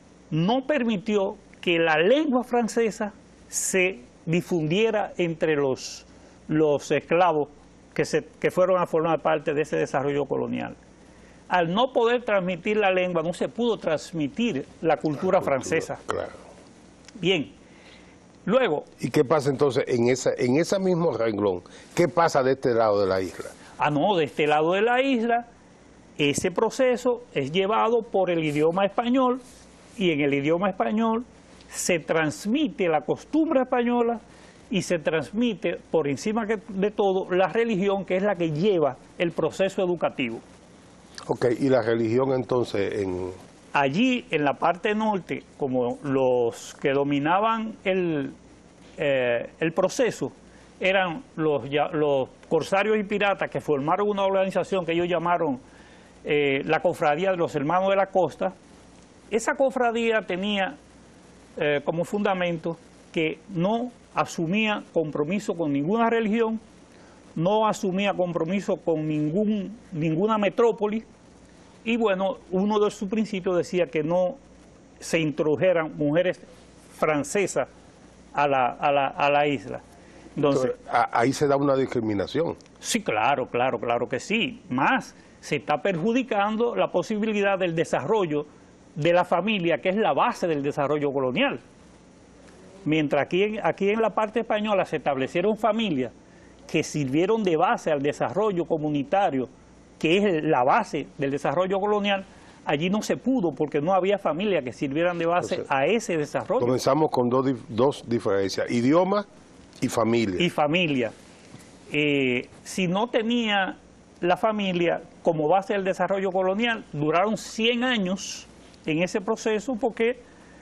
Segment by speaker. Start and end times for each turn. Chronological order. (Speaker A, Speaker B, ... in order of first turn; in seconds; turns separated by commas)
Speaker A: 0.3-10.8, Speaker A: 11.5-16.0, Speaker B: 15.2-16.4, Speaker A: 17.2-17.5, Speaker A: 18.5-18.9, Speaker B: 19.0-23.5, Speaker A: 23.8-25.5, Speaker A: 26.2-29.4, Speaker A: 30.0-40.4, Speaker B: 41.3-43.4, Speaker A: 43.7-48.4, Speaker A: 49.0-55.6, Speaker A: 56.2-58.5, Speaker A: 59.3-60.8, Speaker A: 61.6-66.6, Speaker A: 67.4-71.1, Speaker A: 71.8-74.4, Speaker A: 75.0-77.7, Speaker A: 78.3-79.8, Speaker A: 80.4-80.7, Speaker B: 80.5-82.6, Speaker A: 82.8-91.6, Speaker A: 92.8-96.1, Speaker A: 96.7-106.8, Speaker B: 106.6-109.3, Speaker B: 109.8-110.5, Speaker A: 110.4-111.1, Speaker A: 111.9-120.2